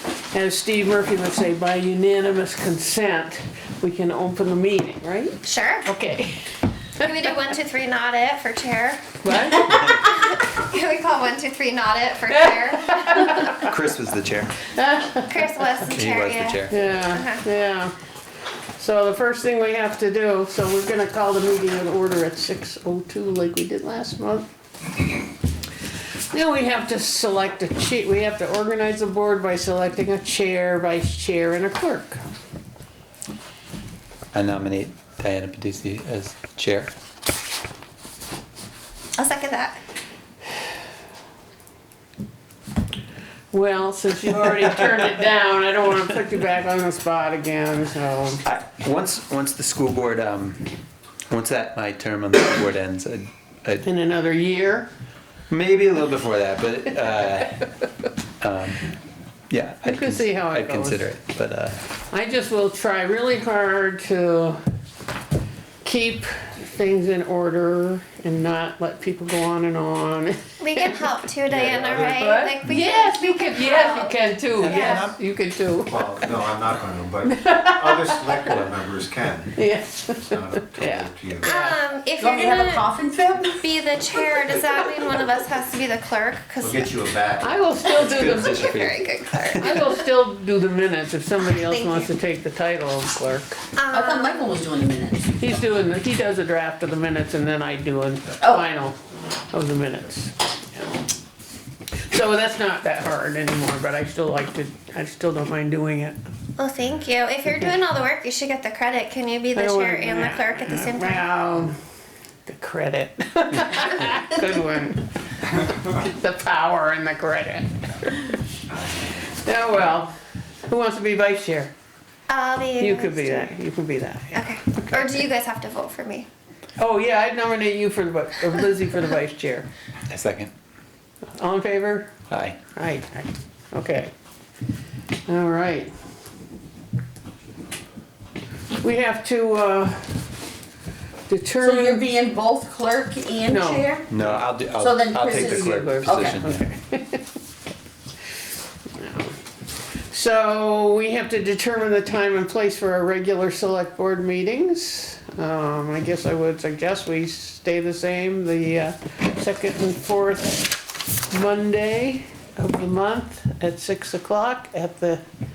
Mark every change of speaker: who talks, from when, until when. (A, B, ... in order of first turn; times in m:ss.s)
0:00.3-0:07.1 A
0:05.4-0:05.9 B
0:07.0-0:13.4 B
0:09.2-0:09.8 A
0:12.7-0:13.6 A
0:13.6-0:14.6 C
0:14.7-0:15.3 A
0:15.2-0:17.4 B
0:15.9-0:16.8 C
0:16.7-0:18.0 A
0:18.8-0:24.5 A
0:26.3-0:32.2 A
0:34.3-0:36.9 C
0:39.2-0:39.8 B
0:43.5-0:48.4 A
0:48.4-0:50.7 C
0:51.3-0:53.9 C
0:53.8-0:54.9 A
0:55.5-0:57.6 C
0:58.4-0:58.9 C
0:59.5-1:01.8 C
0:59.8-1:01.1 A
1:02.1-1:04.6 A
1:05.8-1:11.1 A
1:10.6-1:15.1 B
1:11.5-1:12.2 C
1:11.9-1:16.4 A
1:14.6-1:15.1 C
1:15.8-1:19.6 D
1:17.2-1:18.7 A
1:19.6-1:21.8 A
1:20.3-1:21.5 D
1:21.4-1:22.9 B
1:22.2-1:24.5 E
1:23.6-1:26.9 B
1:26.6-1:27.6 D
1:27.4-1:28.6 A
1:27.9-1:29.8 C
1:28.0-1:29.9 B
1:29.6-1:33.6 A
1:31.5-1:32.1 B
1:33.8-1:34.3 B
1:33.9-1:35.4 E
1:35.4-1:39.0 A
1:39.5-1:41.0 A
1:42.0-1:46.2 A
1:46.6-1:51.2 B
1:49.5-1:51.8 A
1:52.5-1:58.4 A
1:59.1-2:00.1 A
2:00.7-2:01.7 A
2:02.3-2:03.6 B
2:02.8-2:05.3 A
2:04.3-2:06.3 B
2:06.8-2:09.7 A
2:10.1-2:10.5 C
2:11.4-2:12.1 A
2:12.3-2:12.6 C
2:12.7-2:14.1 A
2:15.3-2:15.9 A
2:18.8-2:20.3 A
2:21.3-2:22.1 A
2:21.6-2:24.1 E
2:23.5-2:24.4 A
2:24.1-2:26.6 C
2:24.8-2:26.4 E
2:25.2-2:27.3 A
2:28.9-2:29.4 A
2:30.1-2:45.2 A